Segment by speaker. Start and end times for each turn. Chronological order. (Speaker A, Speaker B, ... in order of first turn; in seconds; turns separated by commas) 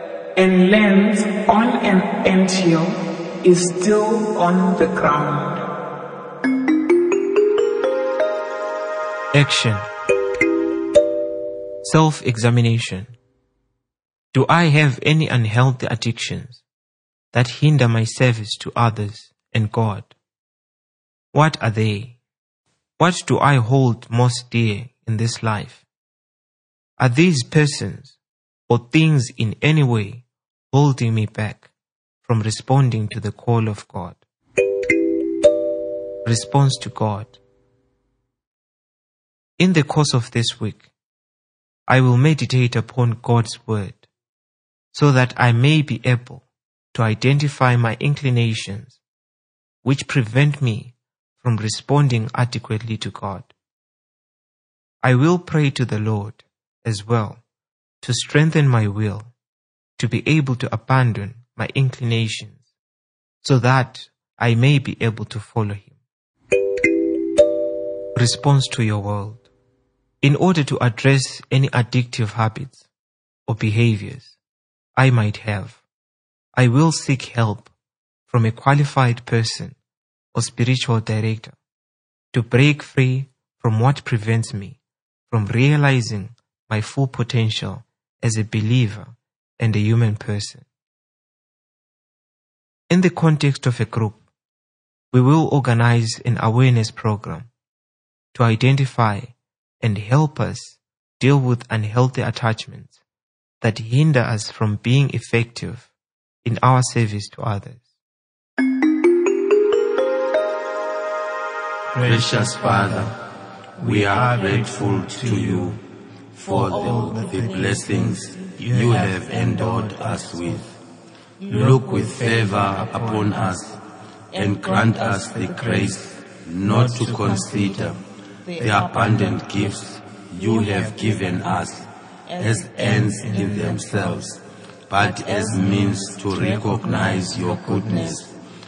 Speaker A: 0.4-5.6, Speaker B: 9.3-9.9, Speaker B: 11.8-13.1, Speaker B: 14.3-16.6, Speaker B: 17.3-20.1, Speaker B: 21.3-22.2, Speaker B: 23.0-25.8, Speaker B: 27.0-28.2, Speaker B: 28.7-31.7, Speaker B: 32.2-34.2, Speaker B: 36.2-37.4, Speaker B: 39.6-40.9, Speaker B: 41.9-44.0, Speaker B: 44.9-49.0, Speaker B: 49.8-53.5, Speaker B: 55.0-57.4, Speaker B: 58.0-59.3, Speaker B: 60.0-62.6, Speaker B: 63.4-65.9, Speaker B: 68.1-69.5, Speaker B: 70.2-72.9, Speaker B: 73.5-74.4, Speaker B: 75.0-75.8, Speaker B: 76.5-77.7, Speaker B: 78.3-79.8, Speaker B: 80.3-81.5, Speaker B: 82.3-84.8, Speaker B: 85.3-90.6, Speaker B: 92.9-94.2, Speaker B: 95.1-97.5, Speaker B: 98.3-103.0, Speaker B: 103.6-105.9, Speaker B: 106.4-107.8, Speaker B: 111.9-113.1, Speaker C: 112.0-113.1, Speaker B: 113.8-115.8, Speaker C: 113.8-115.8, Speaker C: 116.3-120.7, Speaker B: 116.5-120.4, Speaker B: 121.4-123.5, Speaker C: 121.5-123.8, Speaker C: 124.3-128.0, Speaker B: 125.2-125.9, Speaker B: 126.7-127.9, Speaker B: 128.6-129.4, Speaker C: 128.6-131.9, Speaker B: 130.7-131.4, Speaker C: 132.4-138.3, Speaker B: 132.7-134.2, Speaker B: 135.2-138.2